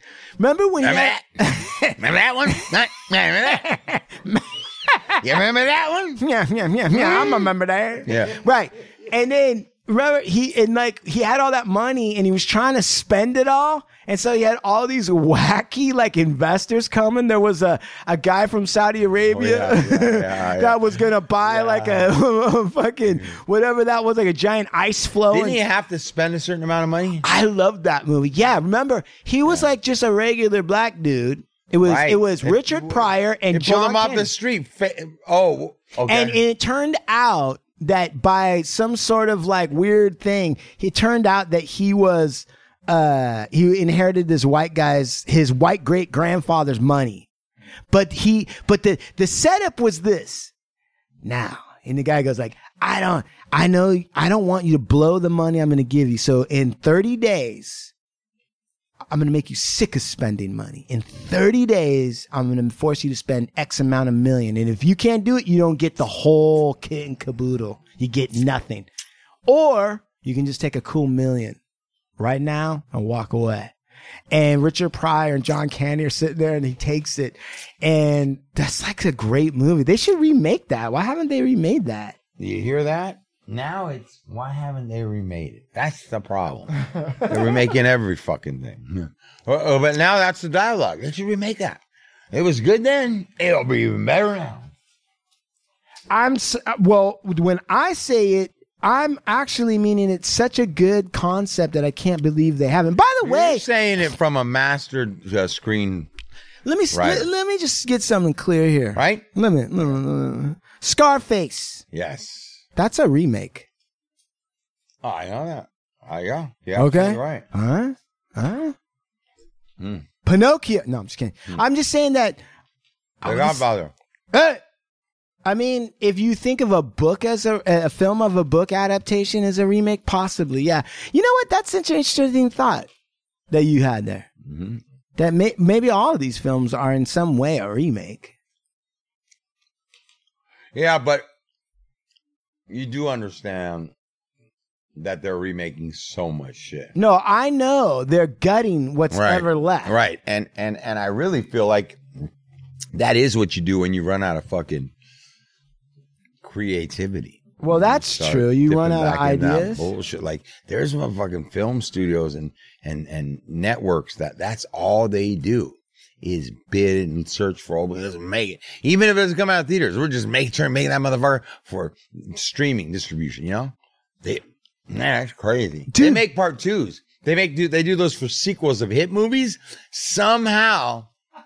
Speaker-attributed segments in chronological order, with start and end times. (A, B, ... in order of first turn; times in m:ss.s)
0:00.4-0:02.0 A
0:00.8-0:03.7 B
0:03.5-0:05.2 A
0:05.2-0:06.2 B
0:06.2-0:25.6 A
0:06.9-0:07.5 B
0:08.0-0:08.4 B
0:19.3-0:22.2 B
0:25.3-0:27.2 B
0:27.2-0:34.3 A
0:31.8-0:36.4 B
0:36.1-0:47.3 A
0:47.9-0:50.5 A
0:51.2-0:57.9 A
0:59.1-1:08.9 A
1:09.4-1:11.6 A
1:12.2-1:13.7 A
1:14.3-1:22.2 A
1:22.4-1:26.7 B
1:27.2-1:34.7 B
1:36.1-1:43.6 A
1:43.2-1:46.1 B
1:46.6-1:51.8 A
1:46.9-1:47.3 B
1:49.0-1:49.2 B
1:51.9-1:52.6 B
1:52.7-1:53.7 A
1:55.0-1:57.4 B
1:56.8-1:58.7 A
1:59.8-2:00.0 B
2:00.2-2:02.4 A
2:03.2-2:03.6 A
2:03.2-2:03.9 B
2:04.3-2:04.6 A
2:05.4-2:12.9 A
2:13.5-2:14.3 A
2:14.4-2:14.8 B
2:15.2-2:18.3 A
2:20.7-2:21.3 B
2:22.7-2:23.9 B
2:25.0-2:26.9 B
2:27.0-2:30.0 A
2:29.1-2:32.0 B
2:32.9-2:34.9 B
2:36.4-3:01.1 B
2:37.6-2:39.9 A
2:55.9-2:56.2 A